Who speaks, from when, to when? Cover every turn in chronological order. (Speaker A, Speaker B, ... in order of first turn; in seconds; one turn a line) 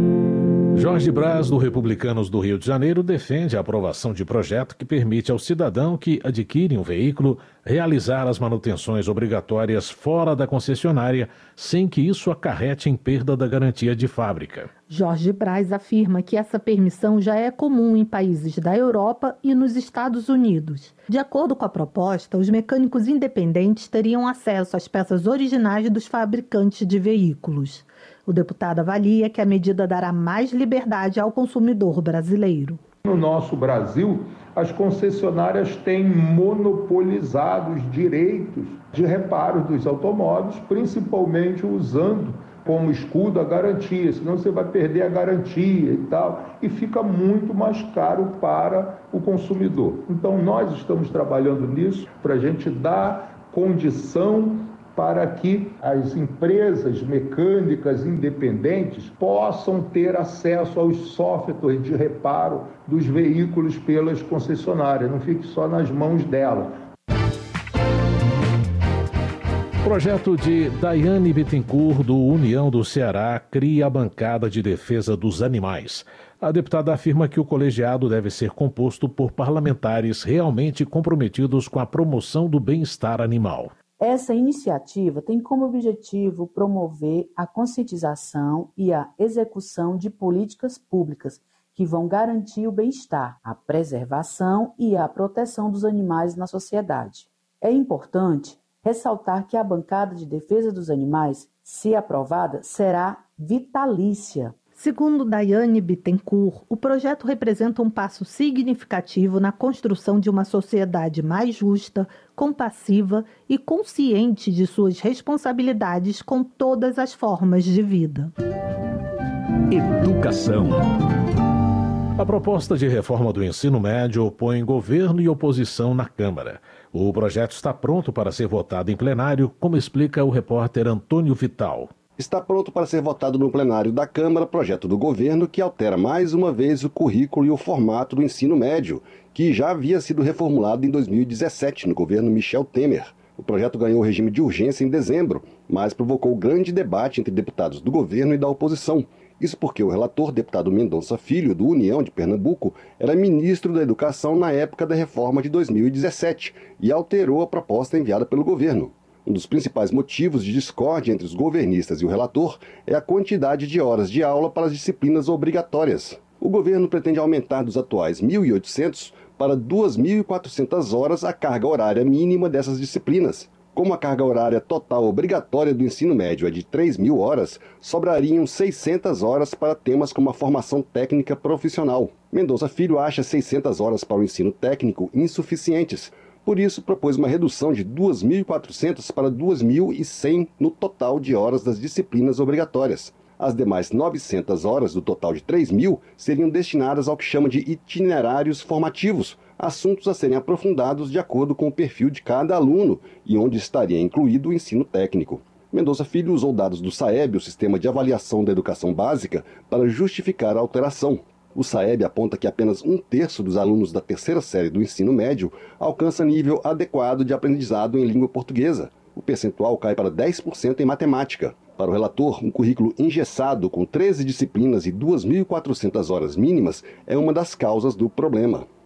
Speaker A: 0.8-14.7
Speaker B: 14.9-32.8
Speaker C: 33.0-66.8
Speaker A: 69.8-83.7
Speaker D: 84.0-104.6
Speaker B: 104.7-118.3
Speaker C: 119.7-120.8
Speaker A: 122.2-131.9
Speaker E: 132.2-228.7